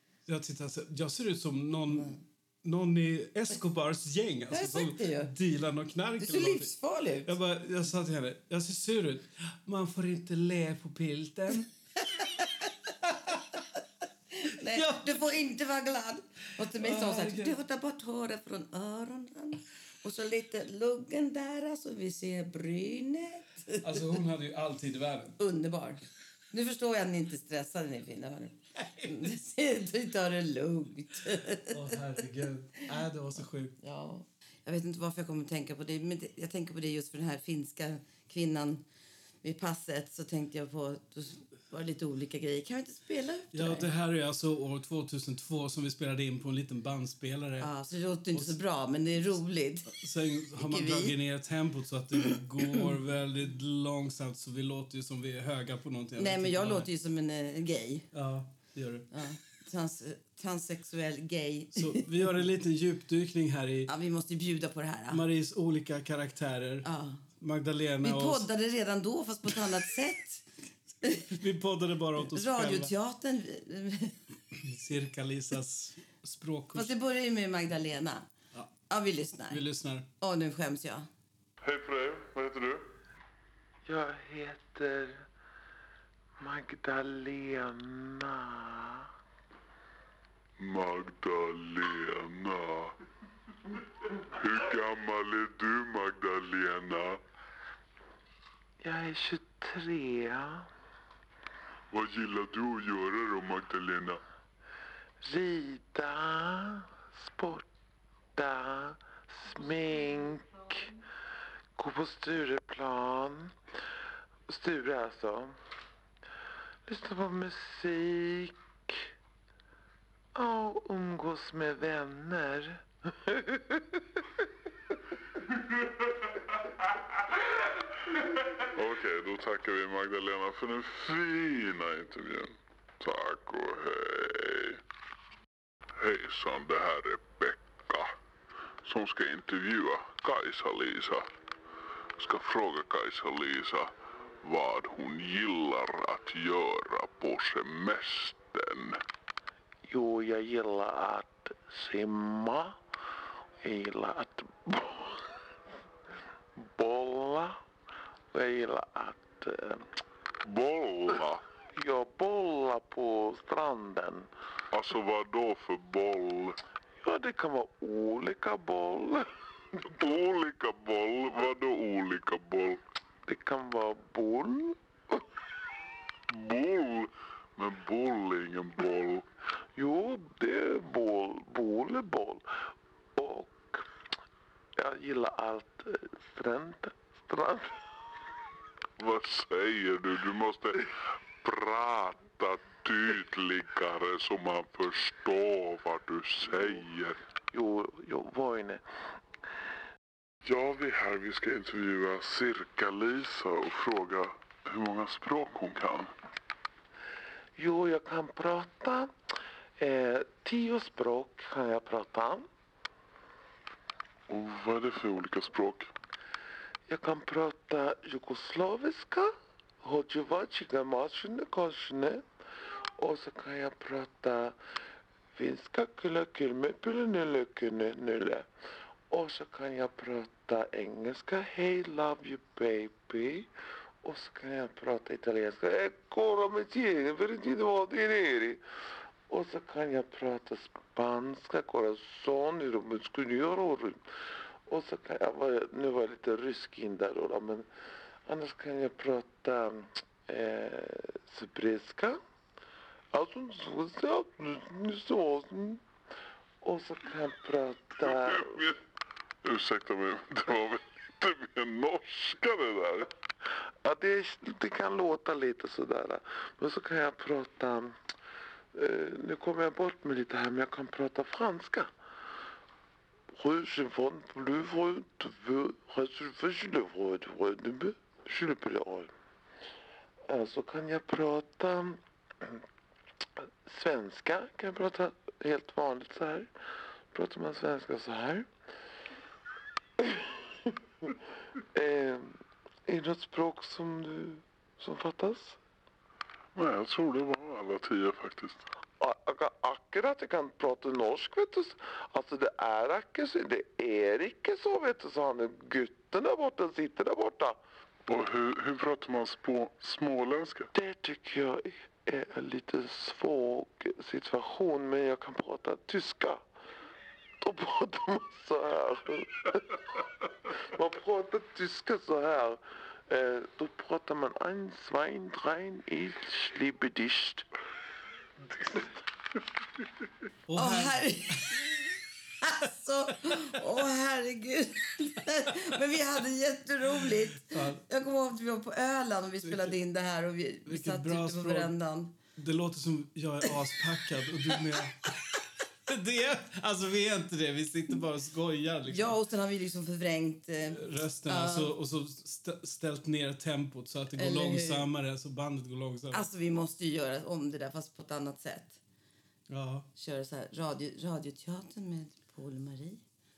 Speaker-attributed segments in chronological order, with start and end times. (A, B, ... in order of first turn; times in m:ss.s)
0:00.3-0:06.7 A
0:04.5-0:05.3 B
0:06.2-0:07.3 B
0:07.2-0:11.7 A
0:12.1-0:12.5 B
0:13.0-0:13.4 A
0:14.3-0:24.1 B
0:14.7-0:15.2 A
0:16.7-0:17.6 A
0:23.8-0:25.4 A
0:25.4-0:31.9 B
0:28.8-0:29.3 A
0:31.7-0:33.8 A
0:33.8-0:38.8 B
0:39.4-0:43.9 B
0:43.5-0:47.7 A
0:47.6-0:50.0 B
0:48.3-0:48.6 A
0:49.9-0:56.9 A
0:50.6-0:51.2 B
0:56.2-0:58.1 B
0:58.1-0:59.1 A
0:59.1-1:02.1 B
1:01.7-1:03.9 A
1:03.9-1:05.2 B
1:05.1-1:08.5 A
1:06.8-1:07.2 B
1:08.0-1:10.4 B
1:11.0-1:11.4 B
1:11.3-1:12.9 A
1:12.3-1:14.2 B
1:14.5-1:16.9 A
1:16.7-1:18.3 B
1:18.9-1:19.6 B
1:19.5-1:20.1 A
1:20.2-1:21.1 B
1:21.6-1:22.9 C
1:23.9-1:25.3 D
1:26.4-1:29.1 D
1:30.6-1:33.0 C
1:34.2-1:37.2 C
1:38.8-1:40.7 D
1:41.9-1:44.2 C
1:45.2-1:47.7 D
1:48.4-1:50.9 D
1:51.8-1:53.5 D
1:54.5-1:55.6 D
1:56.9-1:59.0 D
2:00.4-2:04.0 D
2:08.7-2:14.8 C
2:16.0-2:18.2 C
2:18.8-2:21.3 C
2:22.2-2:23.9 C
2:24.4-2:29.0 C
2:29.9-2:32.8 D
2:33.6-2:35.3 D
2:36.6-2:37.6 D
2:38.3-2:39.8 D
2:40.4-2:41.4 C
2:41.7-2:44.3 D
2:44.7-2:46.6 C
2:47.0-2:49.3 D
2:49.9-2:52.8 C
2:53.3-2:55.2 D
2:56.3-2:59.2 C
2:59.8-3:02.6 D
3:03.2-3:03.9 D
3:04.8-3:07.8 D
3:09.0-3:17.2 C
3:17.5-3:18.8 D
3:20.4-3:26.1 C
3:27.6-3:29.1 D
3:29.8-3:32.5 D
3:34.3-3:35.9 C
3:36.9-3:42.2 D
3:43.0-3:44.6 D
3:45.4-3:48.5 D
3:49.1-3:53.5 D
3:54.0-3:58.6 D
3:59.3-4:04.0 D
4:04.7-4:07.7 D
4:08.3-4:12.2 D
4:13.1-4:15.8 D
4:16.6-4:18.6 D
4:18.0-4:18.8 C
4:19.4-4:23.1 C
4:23.8-4:28.0 D
4:28.7-4:31.9 D
4:33.3-4:39.1 D
4:40.3-4:42.6 D
4:43.6-4:46.5 D
4:47.1-4:48.5 D
4:50.0-4:50.4 D
4:51.7-4:52.4 D
4:52.9-4:55.6 D
4:56.6-4:58.7 C
4:59.0-5:07.6 D
5:08.1-5:10.7 C
5:10.7-5:16.4 D
5:17.4-5:19.8 D
5:20.5-5:27.5 D
5:30.5-5:31.4 A
5:30.6-5:31.7 B
5:32.4-5:42.1 B
5:37.5-5:37.8 A
5:39.4-5:39.8 A
5:40.7-5:41.7 A
5:42.4-5:49.2 A
5:48.9-5:51.7 B
5:50.7-5:56.3 A
5:54.2-5:54.9 B
5:56.1-5:58.8 B
5:59.5-5:59.9 A
6:00.0-6:03.0 B